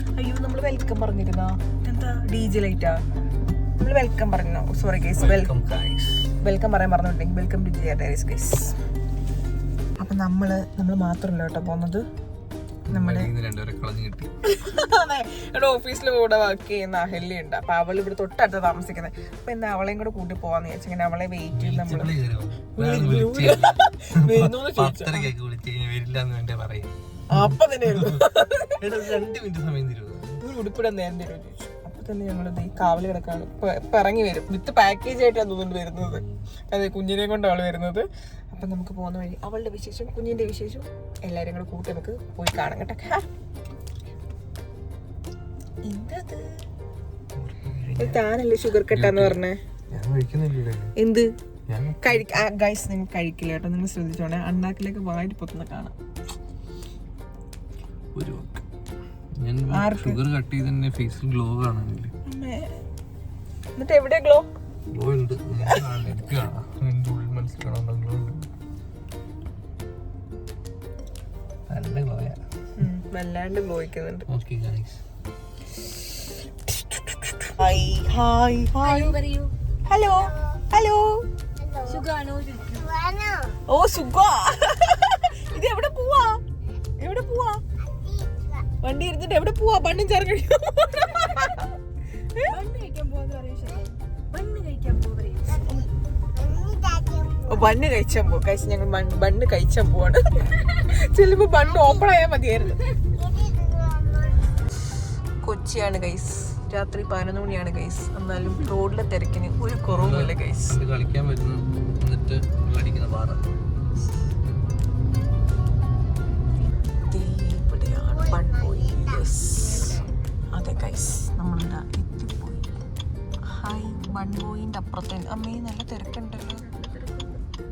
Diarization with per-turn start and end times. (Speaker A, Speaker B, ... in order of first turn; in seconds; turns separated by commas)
Speaker A: 0.1-3.0, Speaker A: 3.8-5.5, Speaker B: 5.2-6.2, Speaker A: 6.4-8.7, Speaker A: 10.0-12.0, Speaker B: 12.9-14.3, Speaker A: 12.9-13.3, Speaker A: 14.4-22.1, Speaker B: 21.5-30.4, Speaker A: 22.7-25.3, Speaker A: 27.3-29.1, Speaker A: 30.4-43.3, Speaker B: 36.0-36.4, Speaker A: 45.8-46.6, Speaker B: 47.4-48.2, Speaker A: 48.0-49.6, Speaker B: 48.9-49.4, Speaker B: 49.9-50.9, Speaker A: 51.0-51.3, Speaker B: 51.7-52.3, Speaker A: 52.0-55.9, Speaker B: 58.1-58.6, Speaker B: 59.4-62.1, Speaker A: 59.7-60.2, Speaker A: 62.3-62.8, Speaker A: 63.7-64.5, Speaker B: 64.9-68.5, Speaker A: 65.6-66.2, Speaker B: 71.7-72.4, Speaker A: 72.8-74.3, Speaker B: 74.3-75.0, Speaker A: 76.7-79.2, Speaker C: 78.8-79.5, Speaker A: 79.8-81.2, Speaker C: 81.8-83.0, Speaker A: 83.7-86.4, Speaker A: 87.0-87.6, Speaker A: 88.8-91.7, Speaker C: 92.5-95.8, Speaker A: 97.4-102.9, Speaker A: 105.4-110.8, Speaker B: 109.9-113.5, Speaker A: 117.1-122.8, Speaker A: 123.5-127.2